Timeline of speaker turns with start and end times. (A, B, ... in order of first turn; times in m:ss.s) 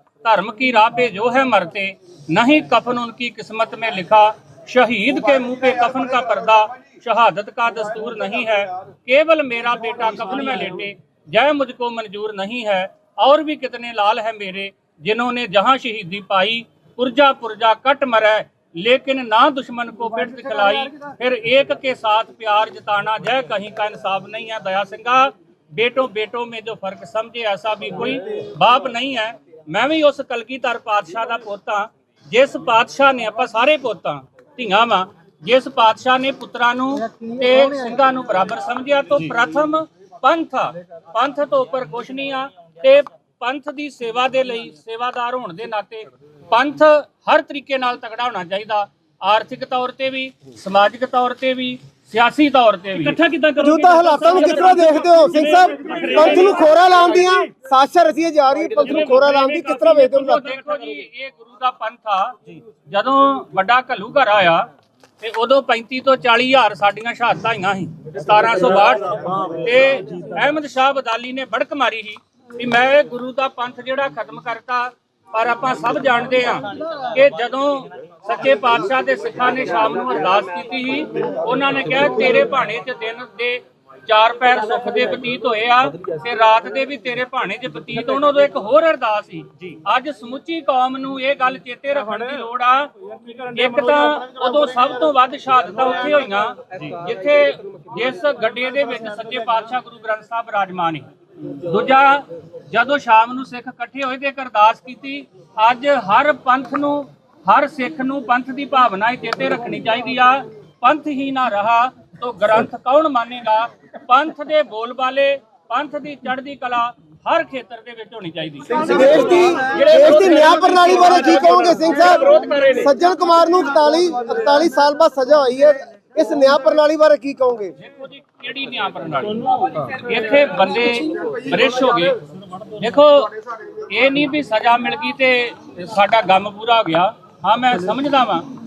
0:00.2-0:53.2 A
0:53.0-0:56.8 B
0:53.6-1:00.4 C
0:58.8-1:00.1 B
1:00.1-2:02.6 A
1:58.7-2:07.7 C
2:02.4-2:02.8 B
2:07.8-2:12.2 A
2:12.8-2:18.4 A